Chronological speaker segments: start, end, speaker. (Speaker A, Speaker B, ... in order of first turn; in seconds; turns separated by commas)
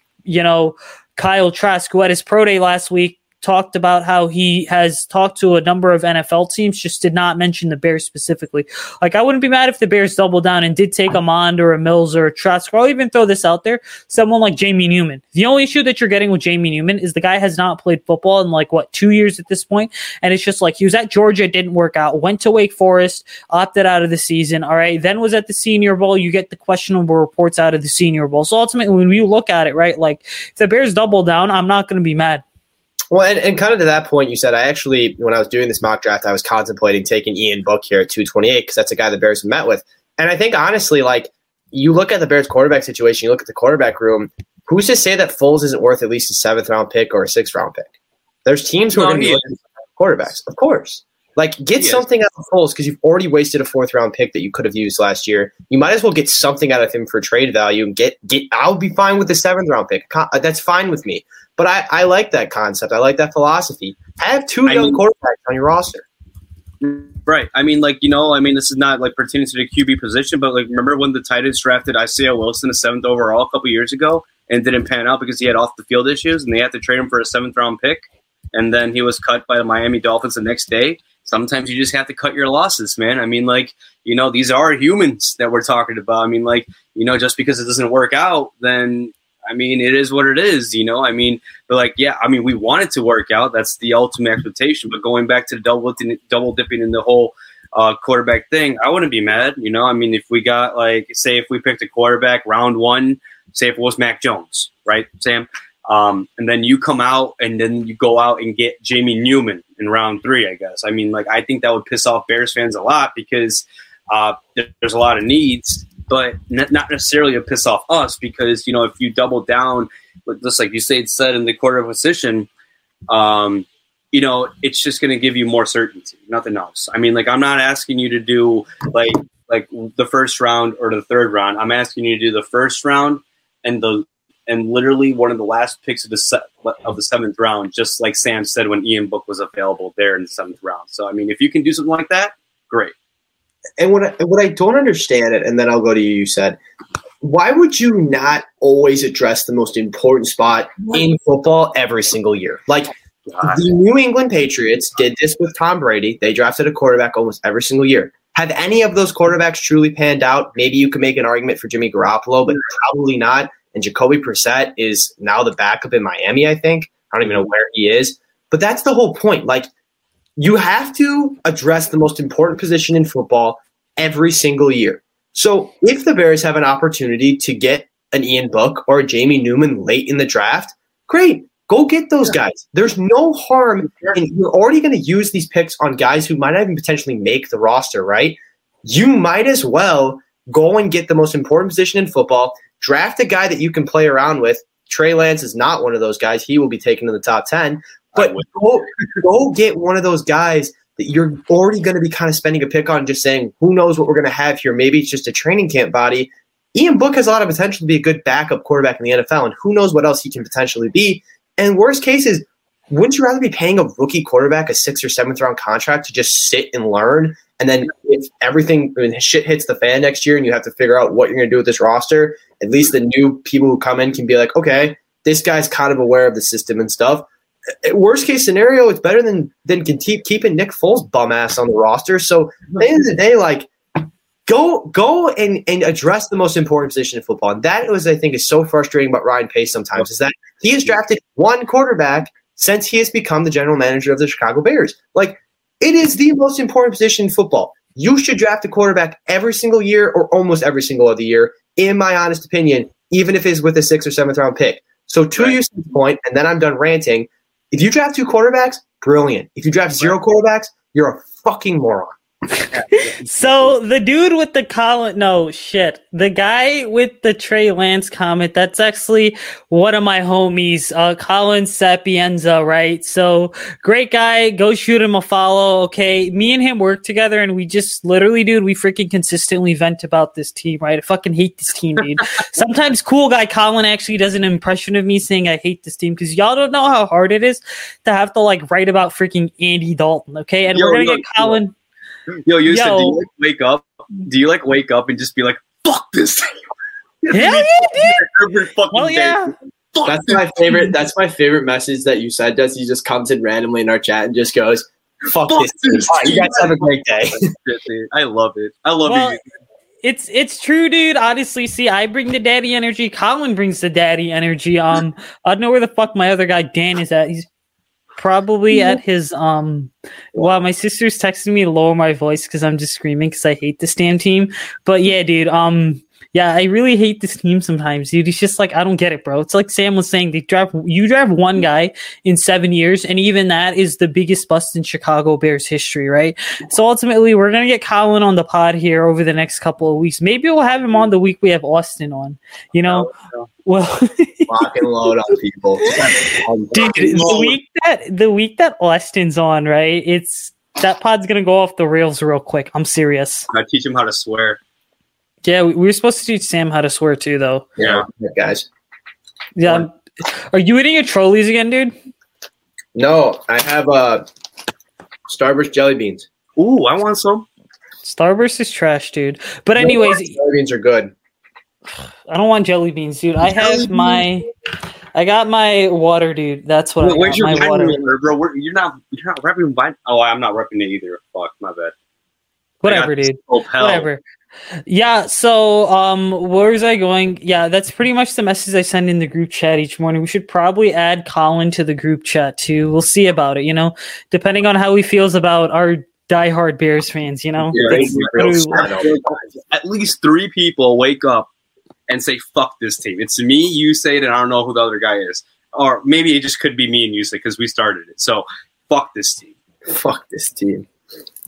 Speaker A: 0.3-32.4, Speaker B: 33.1-47.9, Speaker B: 48.5-49.5, Speaker C: 48.9-49.6, Speaker B: 50.0-66.1, Speaker C: 64.7-65.0, Speaker C: 66.8-122.5, Speaker C: 123.1-142.9, Speaker B: 143.8-146.6, Speaker B: 147.2-169.7, Speaker C: 153.3-153.6, Speaker B: 170.4-227.2, Speaker C: 198.2-198.4, Speaker B: 227.8-233.7, Speaker B: 234.5-262.1, Speaker C: 262.7-263.7, Speaker A: 263.2-291.7, Speaker C: 290.7-291.6, Speaker C: 292.4-296.5, Speaker A: 292.7-293.2, Speaker C: 297.2-300.9, Speaker A: 297.3-298.2, Speaker A: 298.9-299.5, Speaker B: 300.1-307.4, Speaker C: 305.5-309.4, Speaker A: 309.1-309.4, Speaker A: 310.0-317.5, Speaker A: 318.2-343.1, Speaker C: 320.4-320.7, Speaker C: 342.9-343.5, Speaker A: 343.6-344.5, Speaker B: 344.5-347.5, Speaker A: 345.8-353.5, Speaker C: 345.9-347.5, Speaker C: 353.5-354.6, Speaker A: 355.4-357.7, Speaker B: 357.8-358.7, Speaker C: 357.8-358.0, Speaker A: 359.6-361.9, Speaker B: 362.9-364.2, Speaker B: 365.3-366.3, Speaker C: 366.6-367.5, Speaker A: 368.0-370.4, Speaker B: 369.8-371.1, Speaker A: 372.3-374.5, Speaker C: 373.5-374.3, Speaker A: 375.1-378.0, Speaker C: 377.0-381.9, Speaker C: 382.8-384.1, Speaker A: 382.8-384.2, Speaker A: 384.9-398.9, Speaker C: 397.7-401.5, Speaker B: 397.7-399.2, Speaker C: 402.1-409.6, Speaker B: 409.9-410.9